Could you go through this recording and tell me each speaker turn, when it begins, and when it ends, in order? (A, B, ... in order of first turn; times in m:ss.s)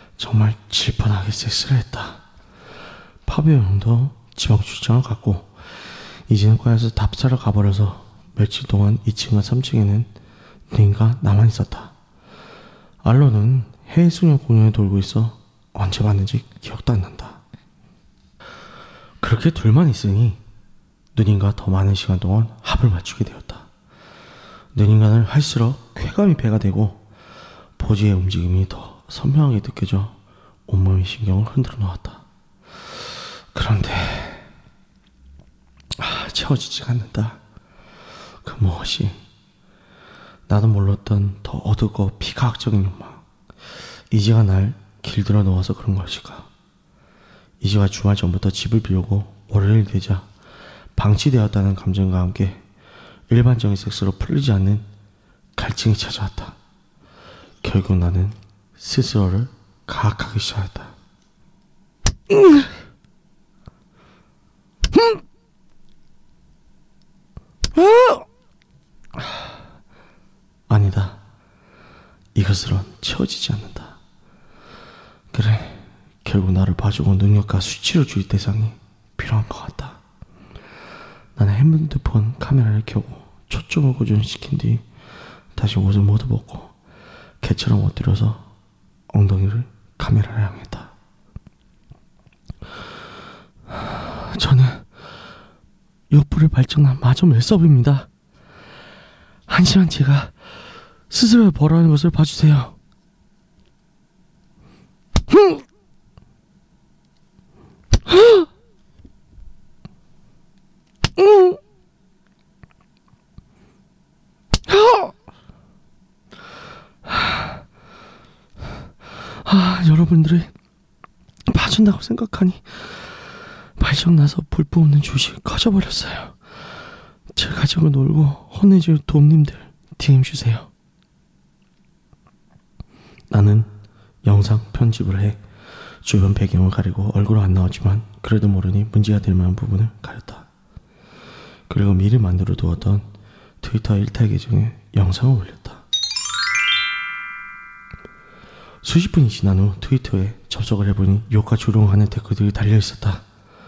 0:00.2-0:02.2 A
0:03.3-0:05.5 A
0:06.3-0:10.1 A
0:10.7-0:11.9 A
0:13.0-0:17.4 A
0:19.2-0:20.4 A
0:21.1-0:23.7 A
0:24.7-0:27.0 A
0:27.8-0:30.1 A
0:30.7-0:32.2 A
0:33.5-0:34.4 A
0:36.0-0:37.4 A
0:38.4-0:39.2 A
0:40.5-0:43.2 A
0:44.1-0:46.5 A
0:47.6-0:50.3 A
0:51.0-0:52.6 A
0:53.3-0:54.9 A
0:55.6-0:56.6 A
0:57.6-1:00.9 A
1:02.3-1:02.7 A
1:04.9-1:05.2 A
1:07.7-1:08.2 A
1:10.7-1:11.2 A
1:12.4-1:14.0 A
1:15.3-1:20.0 A
1:21.4-1:24.8 A
1:25.6-1:26.7 A
1:27.4-1:28.5 A
1:29.1-1:30.9 A
1:33.7-1:34.9 A
1:36.1-1:38.1 A
1:39.5-1:40.4 A
1:41.1-1:42.8 A
1:45.3-1:45.6 A
1:48.1-1:48.5 A
1:51.2-1:51.6 A
1:54.7-1:55.1 A
1:57.1-1:57.6 A
1:59.4-2:00.5 A
2:01.5-2:03.1 A
2:03.8-2:06.4 A
2:07.4-2:10.7 A
2:13.3-2:13.7 A
2:14.2-2:15.4 A
2:16.0-2:20.5 A
2:21.7-2:23.1 A
2:23.6-2:25.8 A
2:28.8-2:33.2 A